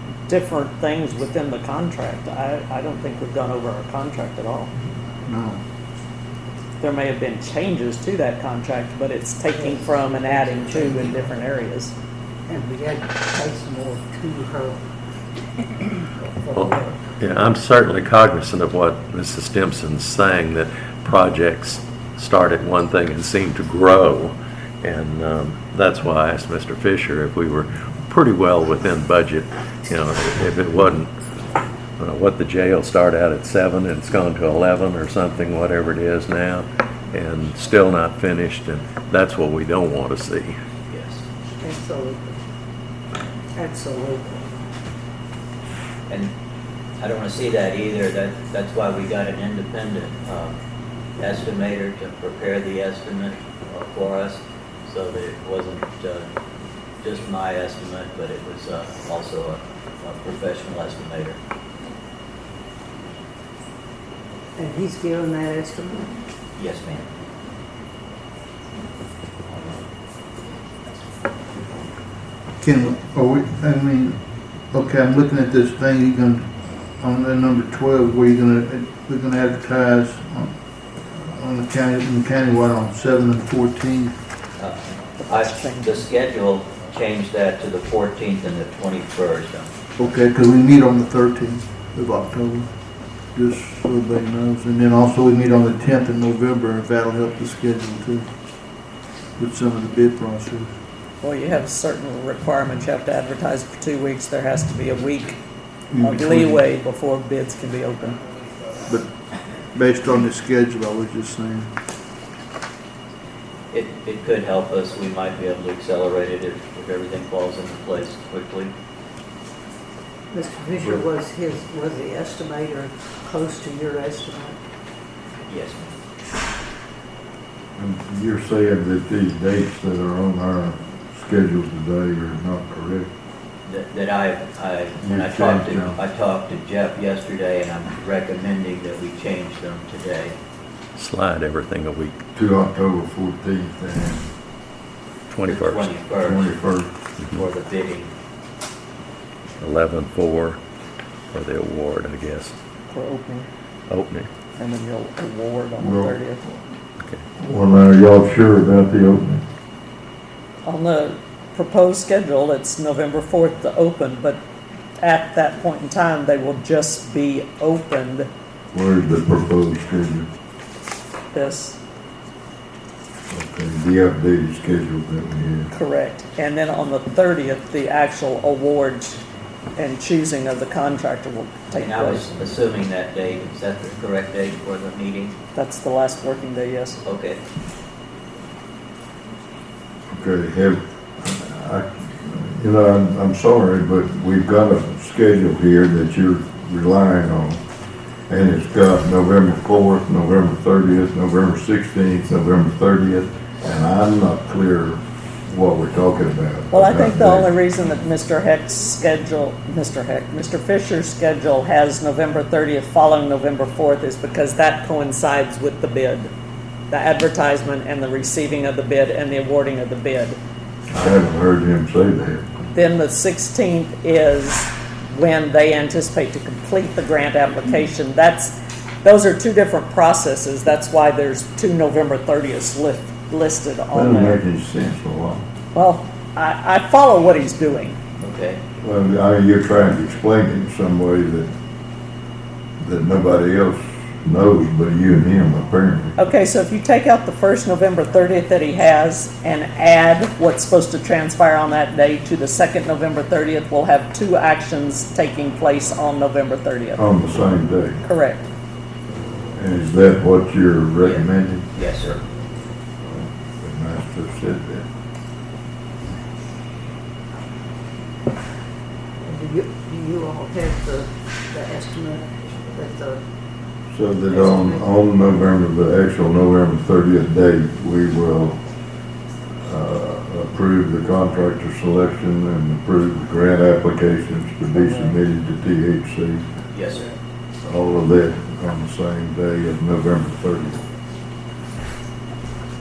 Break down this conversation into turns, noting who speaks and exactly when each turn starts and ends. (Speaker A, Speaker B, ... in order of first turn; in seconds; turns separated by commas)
Speaker A: 0.3-4.7, Speaker B: 5.2-5.6, Speaker A: 6.8-11.9, Speaker C: 9.5-11.1, Speaker C: 12.5-14.8, Speaker C: 15.7-17.0, Speaker D: 16.5-31.1, Speaker D: 32.0-40.6, Speaker E: 40.9-41.2, Speaker C: 41.6-42.4, Speaker C: 43.5-44.5, Speaker E: 47.0-50.6, Speaker E: 51.2-56.3, Speaker E: 57.0-61.4, Speaker C: 64.5-66.1, Speaker E: 66.5-67.0, Speaker B: 72.6-84.2, Speaker E: 84.6-89.7, Speaker A: 85.2-86.0, Speaker B: 90.0-92.8, Speaker B: 93.3-98.3, Speaker B: 99.4-100.7, Speaker A: 101.2-105.4, Speaker B: 105.9-106.6, Speaker A: 106.0-108.2, Speaker B: 108.9-109.1, Speaker B: 109.7-111.7, Speaker E: 113.7-118.7, Speaker C: 120.3-124.6, Speaker E: 125.4-125.9, Speaker F: 127.8-133.1, Speaker E: 133.7-140.3, Speaker F: 135.0-136.0, Speaker D: 140.9-142.2, Speaker F: 142.3-144.2, Speaker D: 145.3-146.0, Speaker E: 145.4-146.6, Speaker F: 146.2-146.9, Speaker E: 147.3-148.1, Speaker D: 149.6-150.6, Speaker D: 151.3-152.6, Speaker A: 152.9-153.5, Speaker D: 153.9-154.3, Speaker A: 154.6-156.4, Speaker F: 155.8-156.2, Speaker F: 157.4-159.4, Speaker A: 160.6-164.4, Speaker A: 165.0-168.3, Speaker F: 168.7-170.3, Speaker A: 171.3-171.8, Speaker F: 173.3-175.7, Speaker A: 175.7-179.2, Speaker A: 179.8-182.3, Speaker E: 181.7-185.3, Speaker A: 185.5-187.0, Speaker E: 187.0-187.4, Speaker F: 190.1-197.6, Speaker F: 198.3-207.5, Speaker A: 206.7-216.3, Speaker A: 216.9-220.4, Speaker F: 220.9-222.5, Speaker A: 222.7-234.4, Speaker F: 233.9-235.4, Speaker A: 235.7-238.0, Speaker E: 238.2-238.6, Speaker F: 238.8-241.5, Speaker F: 242.8-246.1, Speaker A: 246.2-257.0, Speaker F: 256.9-258.0, Speaker A: 258.1-258.4, Speaker F: 259.5-261.7, Speaker E: 261.0-262.2, Speaker F: 263.0-264.8, Speaker C: 269.2-273.2, Speaker F: 273.9-278.6, Speaker C: 274.3-274.8, Speaker F: 279.6-286.4, Speaker A: 284.7-285.1, Speaker E: 286.7-287.0, Speaker F: 287.6-290.8